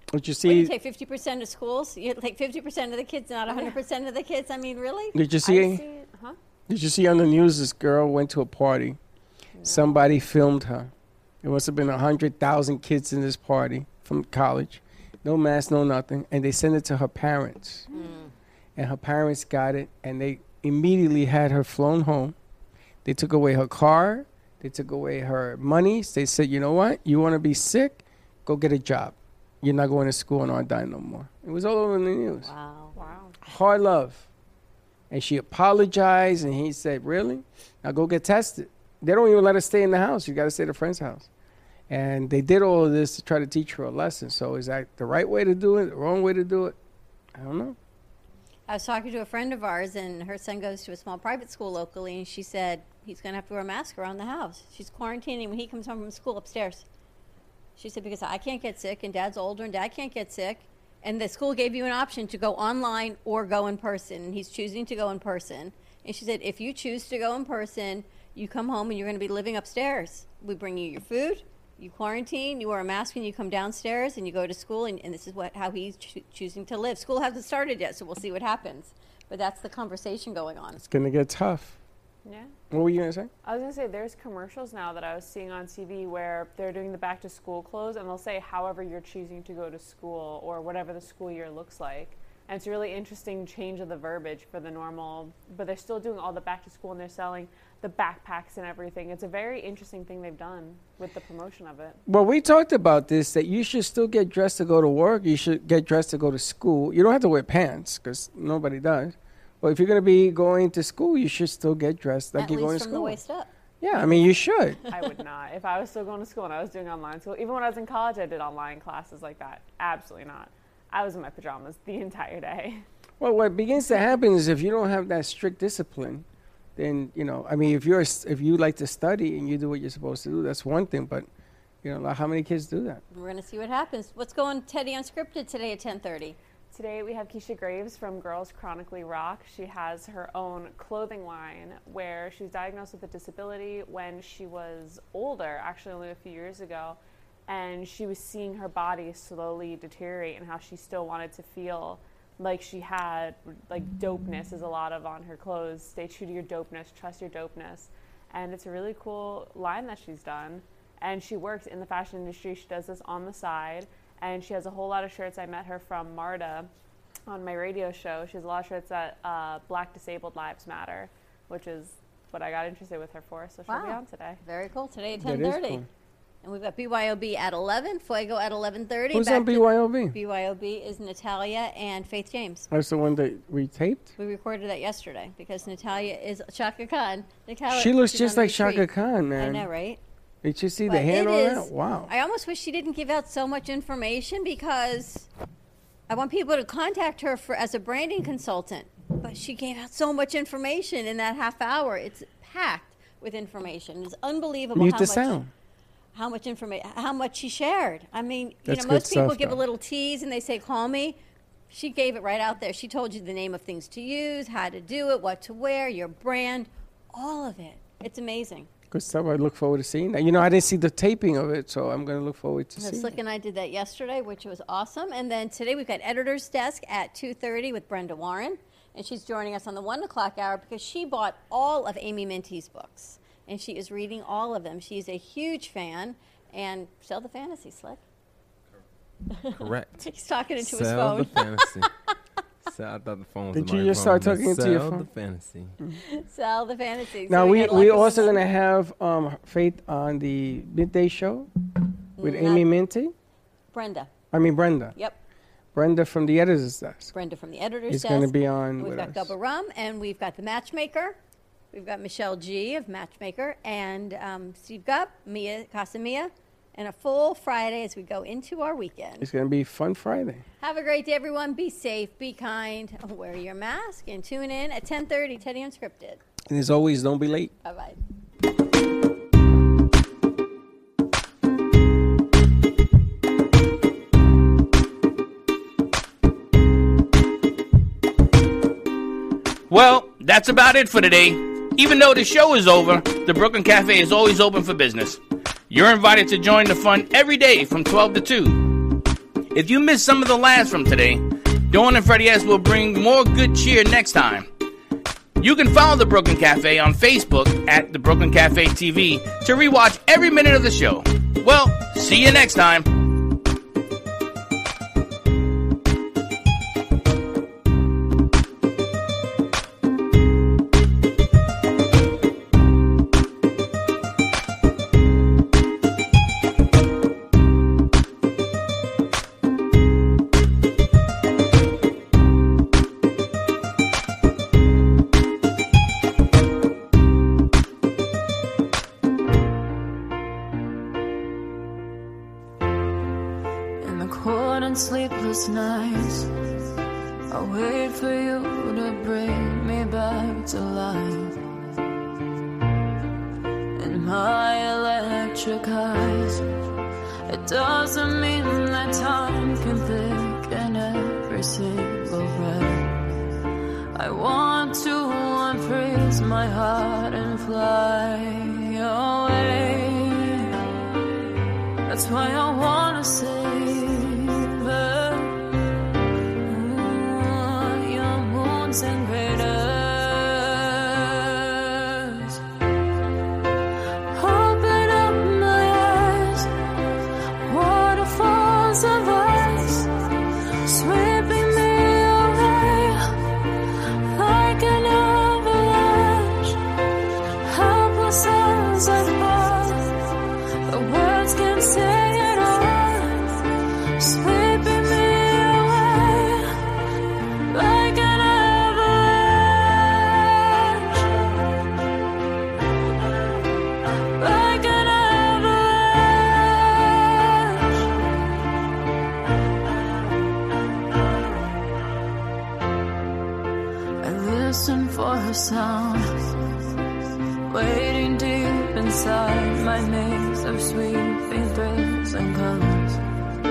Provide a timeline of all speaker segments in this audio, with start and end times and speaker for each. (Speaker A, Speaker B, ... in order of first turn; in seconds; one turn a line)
Speaker A: 0.1-0.7
Speaker B: 0.4-5.2
Speaker C: 3.5-3.8
Speaker A: 5.1-5.8
Speaker C: 5.4-6.4
Speaker A: 6.7-9.0
Speaker C: 9.6-10.1
Speaker A: 9.6-10.9
Speaker A: 11.4-17.9
Speaker B: 17.9-18.3
Speaker A: 18.8-22.3
Speaker A: 23.0-32.5
Speaker B: 32.4-32.9
Speaker C: 33.0-33.4
Speaker A: 33.4-34.3
Speaker A: 35.1-41.3
Speaker A: 41.9-46.8
Speaker A: 47.3-47.8
Speaker B: 48.7-56.8
Speaker B: 57.8-80.8
Speaker A: 80.8-81.8
Speaker C: 82.2-82.5
Speaker A: 82.7-83.3
Speaker C: 83.4-102.0
Speaker A: 102.1-113.2
Speaker B: 112.3-113.5
Speaker A: 113.8-114.8
Speaker C: 114.9-122.8
Speaker A: 123.2-126.2
Speaker A: 126.8-131.3
Speaker A: 131.8-133.0
Speaker B: 133.1-136.4
Speaker C: 136.7-166.7
Speaker C: 167.3-174.4
Speaker B: 173.7-175.8
Speaker A: 175.2-175.8
Speaker B: 176.4-182.7
Speaker A: 179.1-180.2
Speaker A: 182.7-184.1
Speaker B: 184.2-190.0
Speaker A: 187.7-189.7
Speaker A: 190.4-192.1
Speaker B: 190.9-195.3
Speaker B: 196.1-205.4
Speaker A: 204.7-205.5
Speaker B: 206.1-211.2
Speaker A: 208.7-209.6
Speaker B: 211.7-218.7
Speaker A: 218.9-223.2
Speaker B: 222.8-238.0
Speaker B: 239.3-241.7
Speaker D: 239.5-240.0
Speaker D: 240.6-241.9
Speaker D: 242.6-245.8
Speaker A: 243.5-245.1
Speaker B: 246.0-248.4
Speaker A: 247.3-251.5
Speaker C: 247.9-248.2
Speaker B: 252.2-252.7
Speaker A: 252.2-253.1
Speaker B: 253.7-254.1
Speaker A: 254.3-254.9
Speaker A: 255.7-257.1
Speaker B: 257.1-261.2
Speaker A: 257.9-259.3
Speaker B: 261.7-269.3
Speaker A: 269.2-270.4
Speaker B: 270.6-276.2
Speaker A: 276.5-277.5
Speaker B: 277.6-278.0
Speaker E: 289.7-298.8
Speaker E: 299.5-304.5
Speaker E: 305.4-313.0
Speaker F: 343.8-346.3
Speaker F: 347.3-351.4
Speaker F: 353.8-356.4
Speaker F: 357.3-363.1
Speaker F: 363.9-370.6
Speaker F: 371.9-375.5
Speaker F: 376.4-382.4
Speaker F: 384.1-386.5
Speaker F: 387.4-389.9
Speaker F: 390.6-396.6
Speaker F: 397.4-400.1
Speaker F: 400.7-403.4
Speaker F: 404.0-406.8
Speaker F: 407.5-411.3
Speaker F: 414.1-417.9
Speaker F: 424.0-426.3
Speaker F: 427.5-433.0